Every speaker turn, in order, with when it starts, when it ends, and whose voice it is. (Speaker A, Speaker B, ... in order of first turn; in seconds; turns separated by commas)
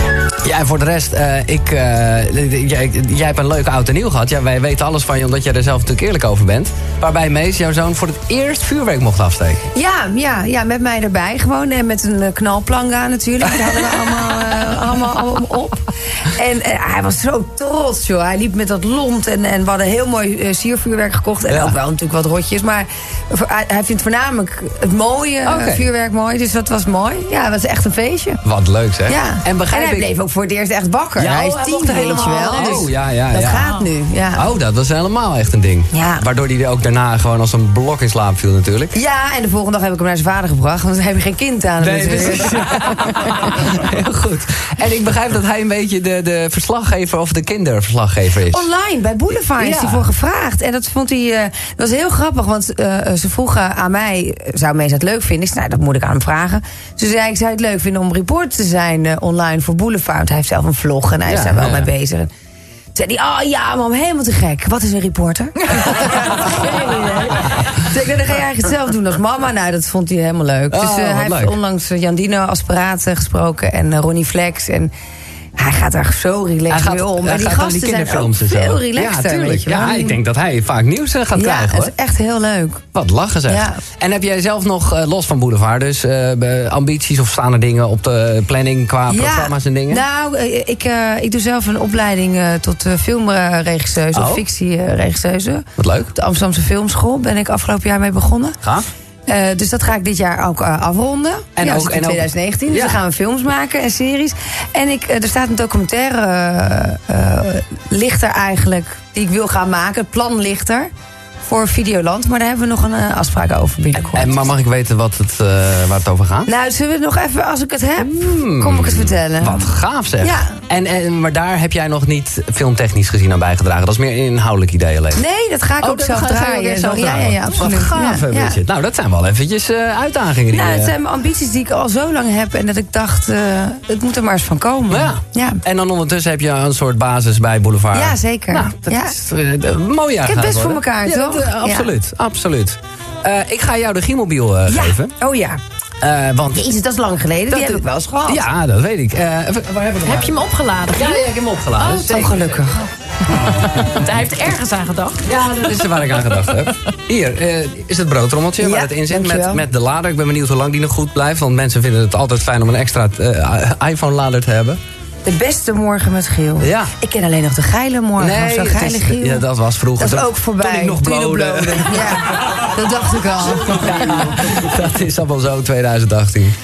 Speaker A: 0.4-9.6, Speaker B: 9.7-28.4, Speaker A: 21.5-21.7, Speaker A: 25.4-25.9, Speaker A: 28.4-30.1, Speaker B: 29.1-34.5, Speaker A: 31.2-33.7, Speaker C: 32.0-32.9, Speaker C: 33.5-33.9, Speaker A: 34.3-38.9, Speaker B: 35.9-36.2, Speaker B: 38.9-43.6, Speaker A: 41.8-48.6, Speaker B: 48.4-62.3, Speaker A: 49.5-50.0, Speaker A: 61.2-61.9, Speaker B: 62.9-74.9, Speaker A: 70.7-71.5, Speaker B: 75.6-80.2, Speaker A: 76.7-81.9, Speaker B: 81.3-82.8, Speaker A: 82.9-90.0, Speaker B: 83.5-83.8, Speaker B: 89.1-98.6, Speaker A: 94.1-94.4, Speaker A: 95.8-96.1, Speaker A: 98.6-98.9, Speaker B: 99.3-110.9, Speaker A: 101.5-103.0, Speaker B: 111.5-114.5, Speaker A: 114.1-116.5, Speaker B: 116.5-120.6, Speaker A: 118.0-125.2, Speaker B: 125.1-128.6, Speaker A: 125.8-130.9, Speaker B: 130.5-135.6, Speaker A: 134.9-145.1, Speaker B: 137.9-139.2, Speaker B: 140.2-141.9, Speaker B: 144.7-145.6, Speaker A: 146.0-146.6, Speaker B: 146.5-148.4, Speaker A: 147.5-152.5, Speaker C: 150.0-151.2, Speaker C: 151.8-152.3, Speaker B: 152.1-152.9, Speaker C: 153.8-155.3, Speaker A: 155.2-164.8, Speaker B: 158.6-159.7, Speaker B: 165.2-174.6, Speaker A: 166.6-166.9, Speaker A: 168.2-172.5, Speaker A: 173.6-176.5